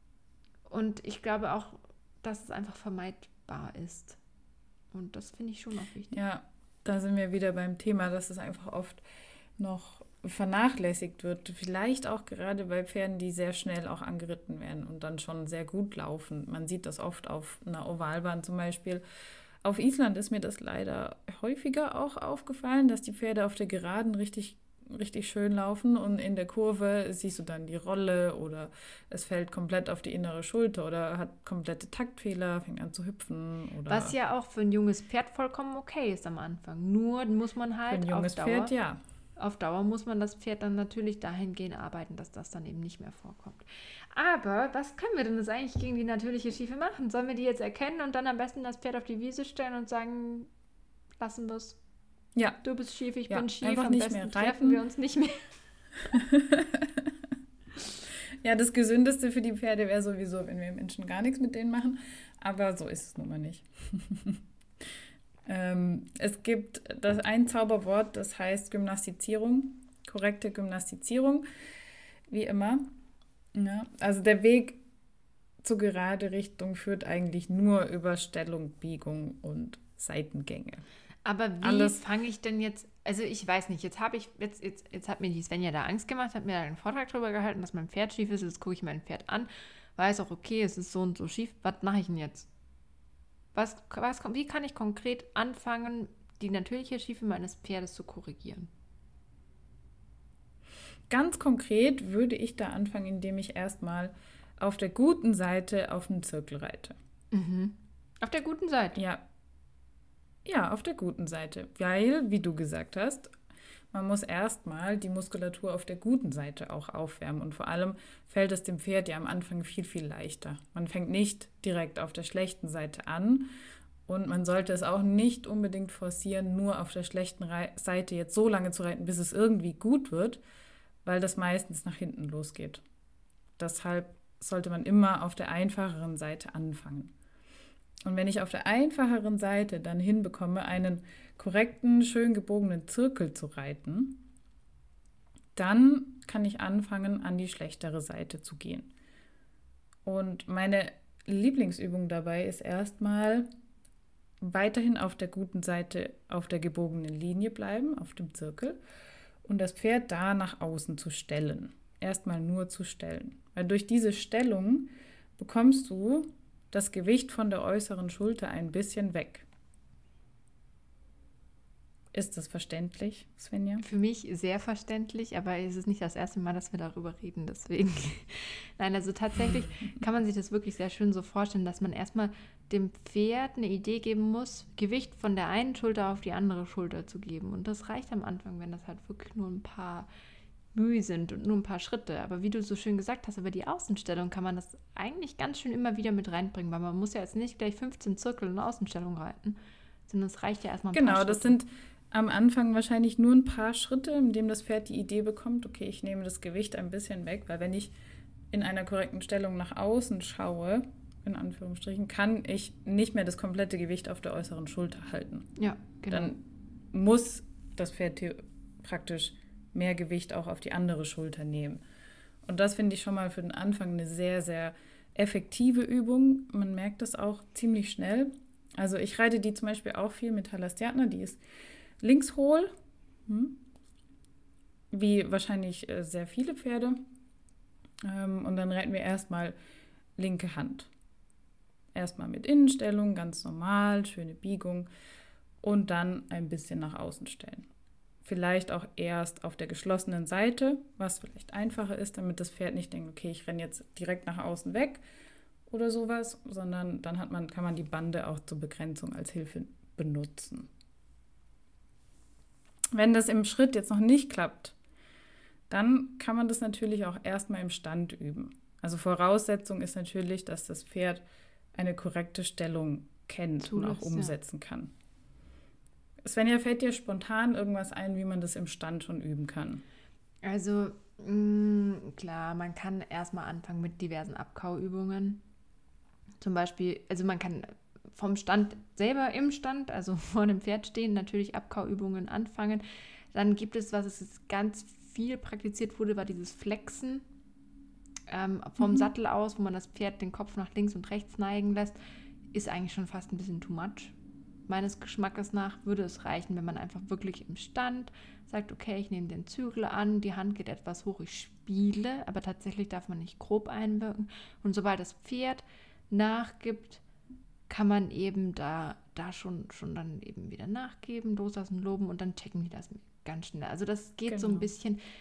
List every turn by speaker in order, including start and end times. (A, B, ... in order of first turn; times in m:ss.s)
0:00.7-0:04.2 A
0:04.9-0:06.2 A
0:06.1-0:09.0 B
0:09.6-0:19.0 B
0:19.6-0:34.2 B
0:33.9-0:38.7 A
0:37.9-0:39.0 B
0:39.4-0:50.5 A
0:51.2-0:51.8 A
0:52.4-0:52.6 B
0:52.6-0:55.4 A
0:53.3-0:54.8 B
0:56.1-0:57.3 B
0:58.4-1:04.4 B
1:05.5-1:11.4 B
1:12.3-1:12.9 B
1:13.5-1:14.8 B
1:15.6-1:20.8 B
1:21.2-1:32.5 A
1:21.6-1:22.0 B
1:33.5-1:38.7 A
1:41.1-1:47.0 B
1:47.3-1:49.0 A
1:49.0-1:49.2 B
1:50.4-1:53.4 B
1:53.9-2:03.5 B
2:04.1-2:10.4 B
2:11.0-2:12.8 B
2:13.6-2:17.1 B
2:18.0-2:24.2 B
2:25.6-2:28.9 B
2:30.1-2:33.5 B
2:34.4-2:38.8 B
2:39.4-2:49.5 B
2:52.1-2:53.8 B
2:53.8-3:10.1 A
3:10.7-3:21.6 A
3:20.9-3:27.9 B
3:28.5-3:35.5 B
3:35.6-3:36.4 A
3:36.1-3:41.8 B
3:42.4-3:51.4 B
3:52.0-3:52.7 B
3:53.3-3:53.6 B
3:54.9-3:57.0 B
3:58.0-3:59.6 B
4:00.2-4:00.9 B
4:02.0-4:04.9 B
4:05.6-4:07.7 B
4:08.2-4:15.0 B
4:15.7-4:20.7 B
4:22.9-4:24.8 B
4:25.7-4:31.2 B
4:31.7-4:34.9 B
4:33.6-4:34.4 A
4:36.2-4:39.8 B
4:40.4-4:45.4 A
4:46.4-4:52.8 A
4:53.3-4:57.2 A
4:58.3-5:02.0 A
4:58.8-4:59.1 B
5:02.5-5:04.1 A
5:04.7-5:17.0 A
5:17.7-5:25.0 A
5:24.3-5:24.7 B